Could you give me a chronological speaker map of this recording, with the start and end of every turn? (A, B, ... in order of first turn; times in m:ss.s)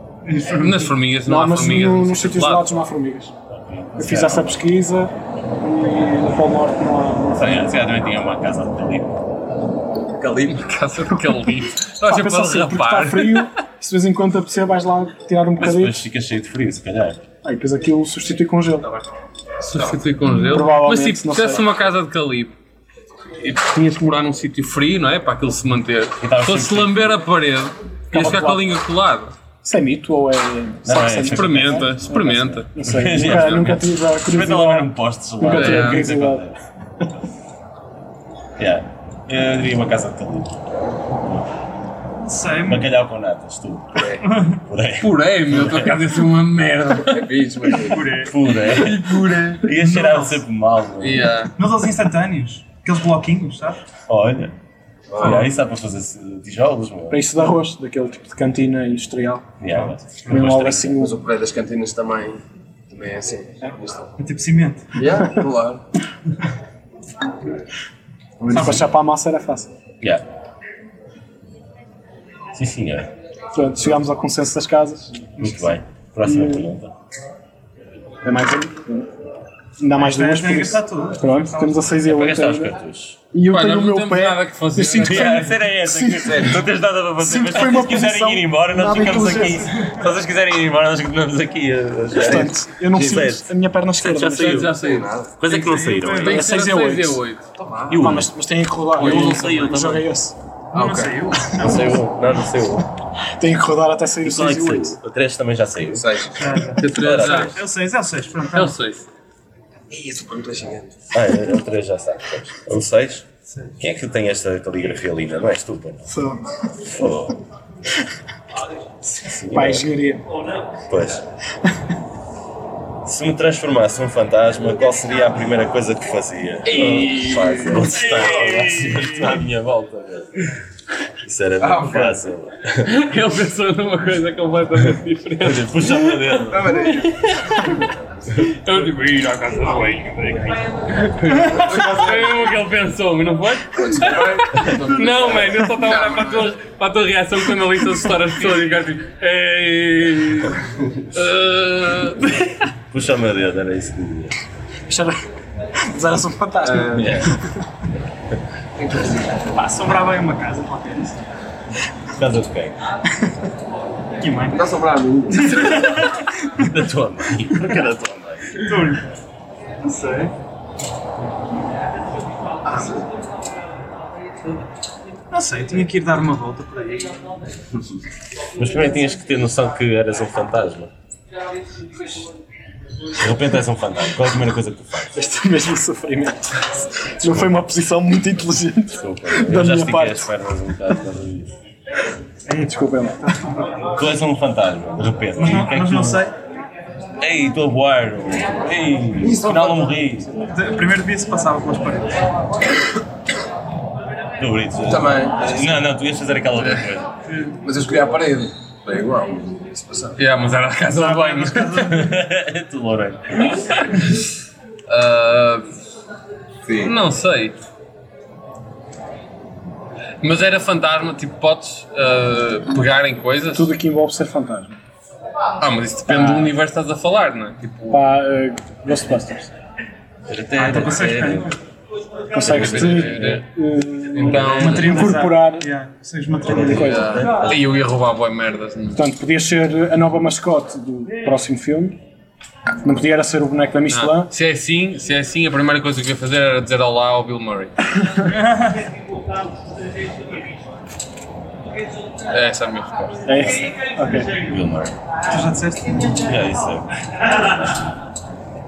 0:00.2-0:00.9 A
0:00.5-0:02.8 B
0:01.2-0:03.3 C
0:03.5-0:04.6 D
0:04.0-0:07.6 C
0:07.4-0:09.2 D
0:10.1-0:10.7 E
0:10.4-0:13.5 B
0:12.0-0:16.0 C
0:15.6-0:17.2 D
0:17.4-0:18.9 C
0:19.6-0:22.5 B
0:20.4-0:21.6 C
0:23.4-0:29.3 B
0:26.2-0:27.1 D
0:28.1-0:28.8 C
0:29.6-0:36.4 C
0:30.8-0:36.7 D
0:31.3-0:33.8 B
0:35.4-0:36.1 B
0:38.6-0:40.6 D
0:41.2-0:41.5 D
0:42.2-0:42.8 A
0:42.6-0:46.1 D
0:44.0-0:44.2 E
0:44.2-0:44.6 A
0:45.0-0:47.8 B
0:47.1-0:48.3 E
0:47.8-0:48.4 A
0:48.1-0:51.4 D
0:48.6-0:49.6 B
0:49.6-0:50.4 A
0:51.0-0:51.5 B
0:51.6-0:53.8 A
0:54.1-0:54.5 D
0:55.1-0:55.5 E
0:55.2-0:57.2 D
0:57.1-0:59.5 C
0:59.6-1:01.0 D
1:00.2-1:01.1 C
1:00.4-1:04.1 E
1:04.2-1:04.9 A
1:04.9-1:05.8 E
1:08.4-1:08.8 E
1:08.5-1:09.7 C
1:08.5-1:08.8 A
1:12.5-1:13.1 D
1:13.5-1:15.3 C
1:15.4-1:15.7 A
1:15.4-1:16.9 D
1:16.2-1:16.7 C
1:18.2-1:19.1 C
1:19.8-1:22.7 C
1:20.0-1:22.0 A
1:22.0-1:23.2 D
1:23.3-1:26.5 C
1:23.5-1:25.6 B
1:25.0-1:34.8 D
1:26.1-1:26.6 E
1:27.2-1:29.7 C
1:29.6-1:29.9 A
1:32.1-1:34.7 C
1:34.0-1:37.5 B
1:34.7-1:35.3 E
1:35.4-1:36.5 D
1:35.6-1:36.4 A
1:36.2-1:37.2 C
1:37.6-1:38.0 E
1:37.9-1:38.3 D
1:37.9-1:40.4 C
1:38.9-1:40.1 D
1:39.1-1:39.4 B
1:40.7-1:41.5 E
1:40.7-1:42.0 A
1:41.5-1:42.9 D
1:43.4-1:44.9 C
1:44.2-1:46.1 D
1:45.9-1:46.6 E
1:46.3-1:48.8 A
1:46.7-1:47.6 B
1:47.0-1:47.6 D
1:48.5-1:49.0 B
1:49.9-1:51.0 E
1:51.1-1:53.3 D
1:53.5-1:53.8 A
1:53.8-1:56.1 D
1:56.1-1:56.4 C
1:56.8-1:57.4 D
1:59.2-1:59.9 D
1:59.5-2:00.2 C
2:00.9-2:01.2 D
2:03.0-2:10.5 D
2:06.6-2:09.4 B
2:11.2-2:13.0 D
2:11.6-2:12.2 E
2:12.8-2:17.8 B
2:15.4-2:16.8 D
2:16.4-2:17.6 E
2:18.4-2:30.6 B
2:21.6-2:22.2 E
2:23.8-2:26.5 E
2:31.1-2:32.7 B
2:32.9-2:34.4 D
2:34.9-2:35.2 C
2:35.8-2:37.4 C
2:36.6-2:37.3 E
2:36.9-2:37.4 D
2:38.8-2:39.6 E
2:39.5-2:41.2 A
2:42.1-2:42.7 D
2:44.2-2:44.6 A
2:44.5-2:46.0 E
2:45.5-2:46.3 A
2:46.6-2:48.7 D
2:48.5-2:49.2 A
2:49.8-2:50.3 A
2:52.6-2:53.1 E
2:55.3-2:57.3 A
2:58.6-3:00.9 D
3:03.2-3:05.1 D
3:05.1-3:10.3 C
3:07.2-3:07.5 D
3:08.9-3:11.5 D
3:12.5-3:13.8 A
3:12.6-3:13.4 C
3:13.9-3:16.2 D
3:15.4-3:16.4 A
3:17.2-3:20.4 D
3:19.4-3:19.8 A
3:20.4-3:22.2 A
3:24.4-3:27.1 D
3:24.8-3:25.8 E
3:27.3-3:27.6 A
3:27.6-3:30.2 E
3:30.2-3:32.1 B
3:30.9-3:32.0 A
3:31.9-3:33.6 D
3:33.4-3:34.2 B
3:34.9-3:35.7 B
3:36.6-3:36.9 E
3:36.8-3:37.6 B
3:40.2-3:43.7 B
3:43.5-3:44.8 C
3:45.6-3:48.0 B
3:46.1-3:46.5 C
3:47.9-3:49.5 C
3:50.3-3:51.5 D
3:50.6-3:51.6 A
3:52.3-3:55.7 C
3:52.4-3:53.4 B
3:52.4-3:53.4 D
3:54.1-3:55.1 B
3:54.4-3:57.5 A
3:56.4-3:57.6 D
3:56.6-3:57.1 C
3:56.7-3:59.0 B
3:58.9-4:02.0 C
4:02.8-4:04.3 C
4:03.9-4:07.7 B
4:08.2-4:08.8 A
4:12.3-4:13.1 B
4:13.2-4:14.3 C
4:14.3-4:15.0 D
4:15.3-4:16.2 A
4:16.1-4:17.9 D